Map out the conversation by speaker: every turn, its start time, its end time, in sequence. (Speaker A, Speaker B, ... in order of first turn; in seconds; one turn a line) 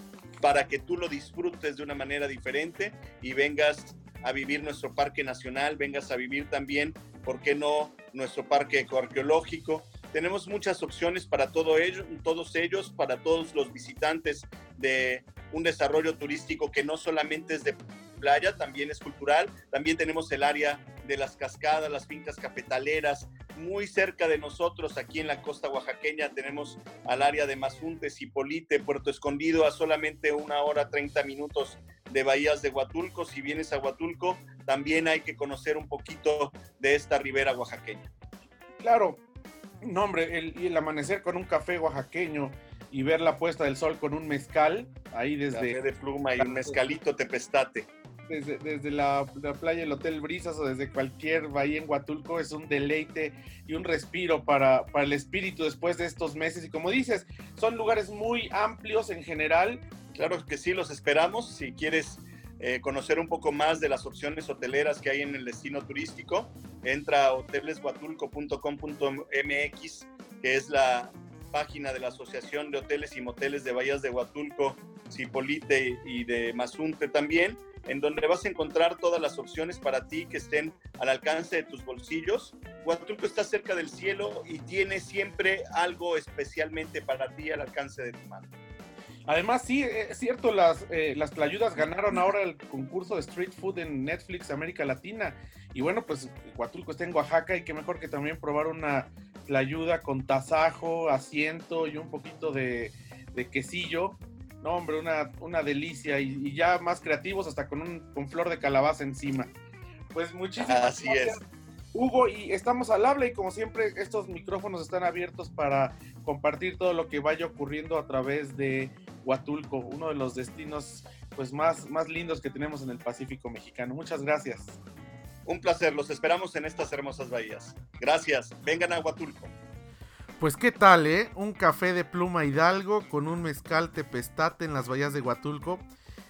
Speaker A: 0.4-38.1
Speaker B: 38.8-39.2
Speaker B: 39.8-45.8
Speaker A: 45.5-47.9
Speaker B: 46.4-46.8
Speaker B: 48.3-59.8
Speaker A: 60.1-88.5
Speaker B: 89.3-109.5
Speaker B: 110.1-111.4
Speaker A: 110.6-111.4
Speaker B: 111.9-124.8
Speaker A: 125.5-129.5
Speaker B: 130.4-135.9